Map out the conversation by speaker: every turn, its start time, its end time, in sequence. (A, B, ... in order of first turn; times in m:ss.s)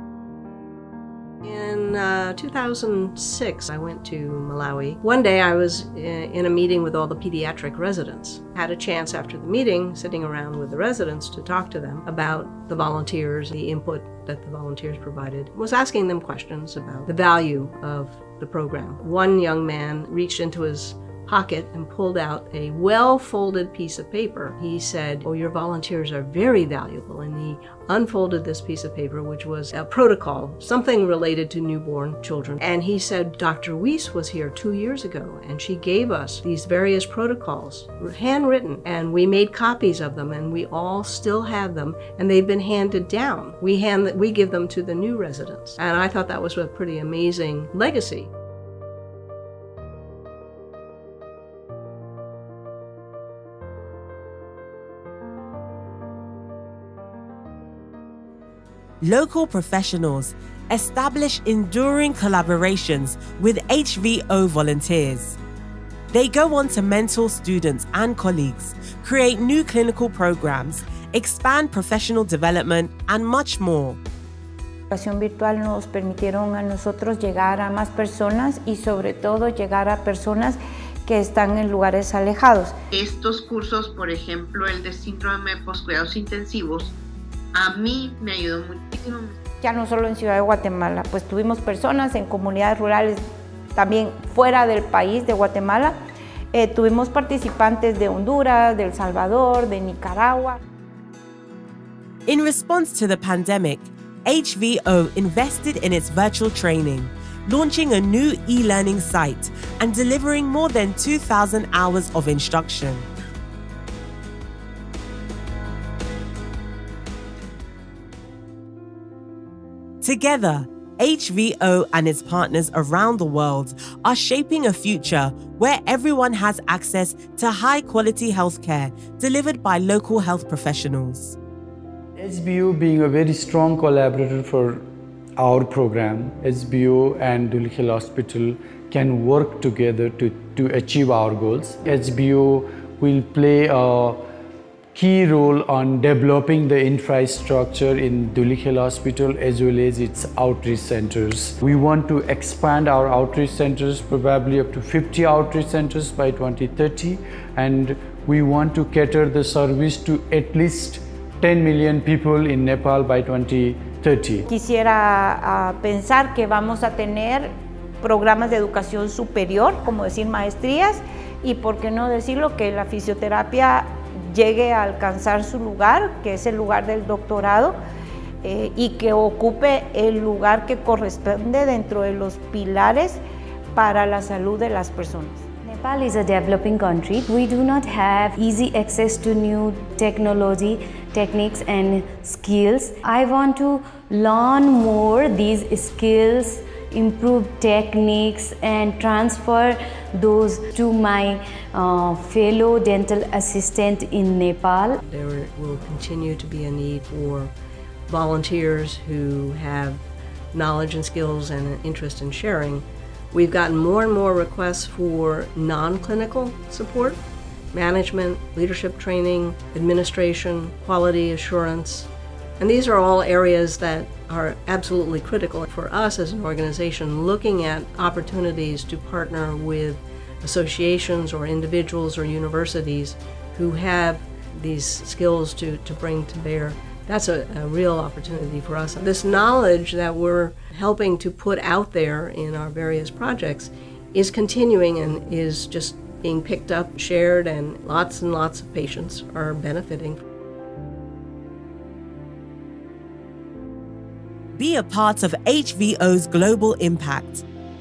0:01.4-0:48.3 A
0:59.0-1:05.4 B
1:06.1-1:14.0 B
1:14.9-1:22.7 C
1:22.9-1:27.0 D
1:27.5-1:29.4 D
1:29.6-1:33.2 C
1:33.8-1:36.0 C
1:36.5-1:40.6 C
1:42.3-1:53.1 B
2:00.0-2:11.4 B
2:12.2-2:14.8 E
2:15.4-2:24.2 E
2:24.9-2:44.5 E
2:44.5-2:47.5 C
2:48.0-2:57.8 C
2:58.4-3:03.2 C
3:03.8-3:05.5 C
3:05.6-3:25.0 F
3:25.0-3:27.5 A
3:28.1-3:30.0 A
3:30.5-3:37.2 A
3:37.7-4:10.2 A
4:14.6-4:17.4 B